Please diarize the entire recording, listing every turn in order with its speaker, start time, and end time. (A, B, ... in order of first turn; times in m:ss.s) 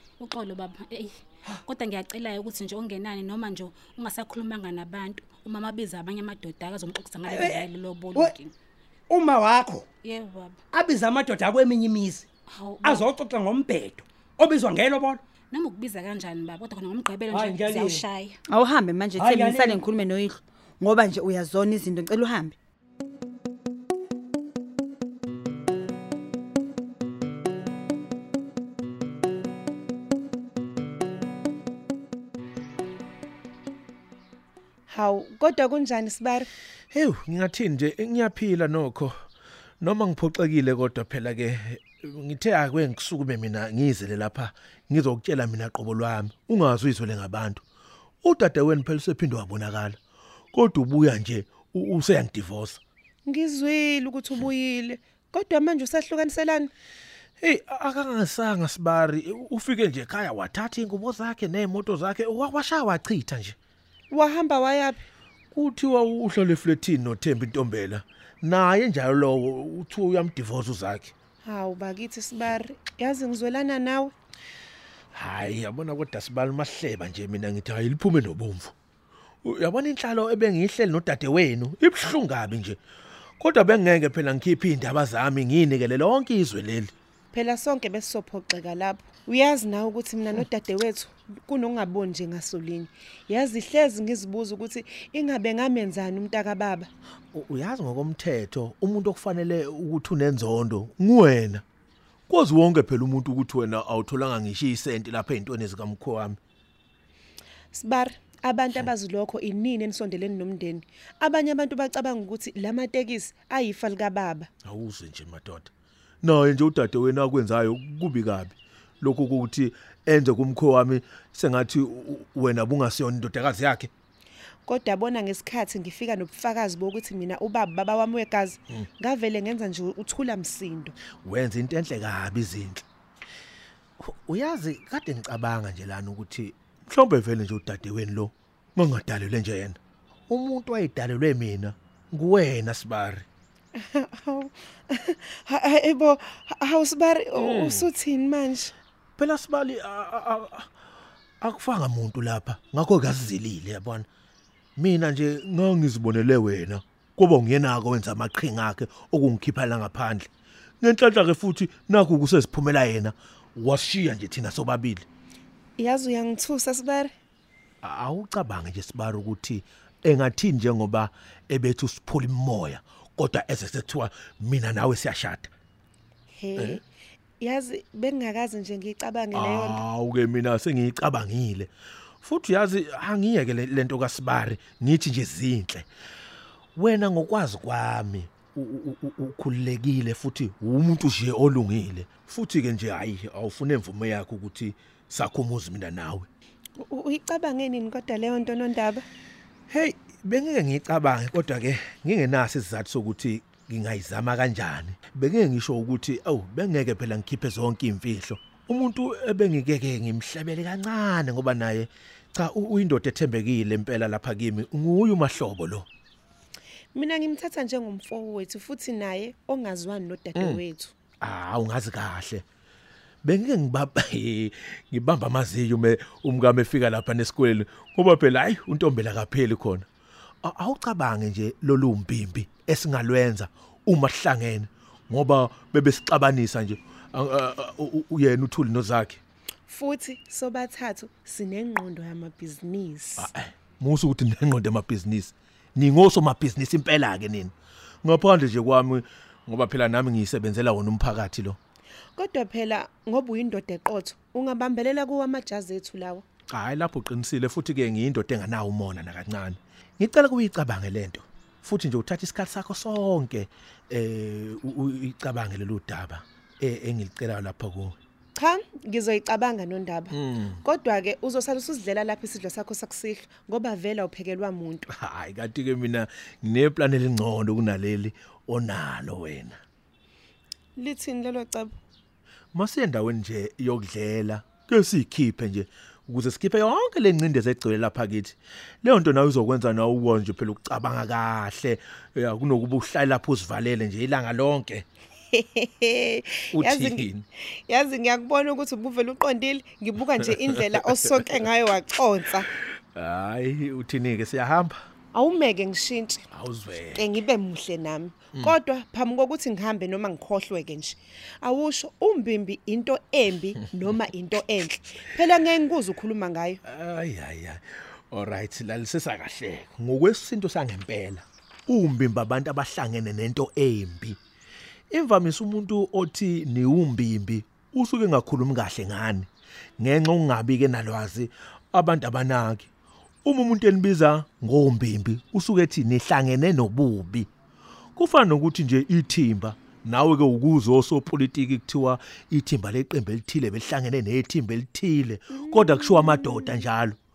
0:00.2-0:08.5 A
0:07.3-0:08.3 B
0:09.1-0:09.9 B
0:10.0-0:10.6 A
0:10.7-0:12.3 B
0:12.5-0:13.1 A
0:12.8-0:15.2 B
0:15.5-0:18.4 A
0:17.3-0:18.0 B
0:18.5-0:22.6 C
0:19.2-0:19.8 B
0:34.9-0:36.5 D
0:36.9-0:39.2 E
0:39.8-0:47.6 E
0:48.2-0:50.0 E
0:50.5-0:52.8 E
0:53.3-0:56.7 D
0:57.4-1:03.6 E
1:04.1-1:05.0 D
1:05.5-1:11.1 E
1:11.4-1:14.1 D
1:15.1-1:18.7 E
1:19.4-1:22.8 E
1:23.4-1:26.9 E
1:27.3-1:36.9 D
1:37.3-1:41.6 E
1:42.3-1:46.4 E
1:47.7-1:54.5 D
1:54.6-2:03.9 E
2:04.7-2:11.0 D
2:11.2-2:12.8 E
2:14.0-2:19.8 E
2:20.3-2:23.2 E
2:23.8-2:28.7 D
2:27.4-2:27.9 E
2:29.2-2:30.7 E
2:31.4-2:34.1 E
2:34.8-2:40.3 E
2:40.8-2:45.0 E
2:45.8-2:47.1 D
2:47.8-2:55.5 E
2:56.3-2:56.8 D
2:57.4-2:59.8 D
2:59.3-3:01.7 E
3:02.2-3:05.9 E
3:06.8-3:16.3 E
3:16.8-3:19.0 D
3:19.7-3:35.9 E
3:36.9-3:40.9 D
3:40.4-3:40.6 E
3:41.2-3:42.4 E
3:43.2-3:49.9 E
3:50.4-3:59.2 E
3:59.7-4:03.3 D
4:03.2-4:11.6 E
4:12.2-4:16.2 D
4:16.5-4:28.0 E
4:28.4-4:34.9 D
4:30.1-4:30.6 E
4:34.9-4:39.6 E
4:40.8-4:41.7 D
4:42.5-4:54.8 E
4:55.3-4:57.1 D
4:56.5-4:57.3 E
4:57.7-5:02.5 D
5:02.9-5:04.7 E
5:05.1-5:06.2 D
5:06.3-5:07.0 E
5:07.0-5:16.6 D
5:16.6-5:24.2 E
5:24.9-5:32.7 E
5:33.2-5:37.3 E
5:38.0-5:47.0 E
5:45.5-5:46.5 D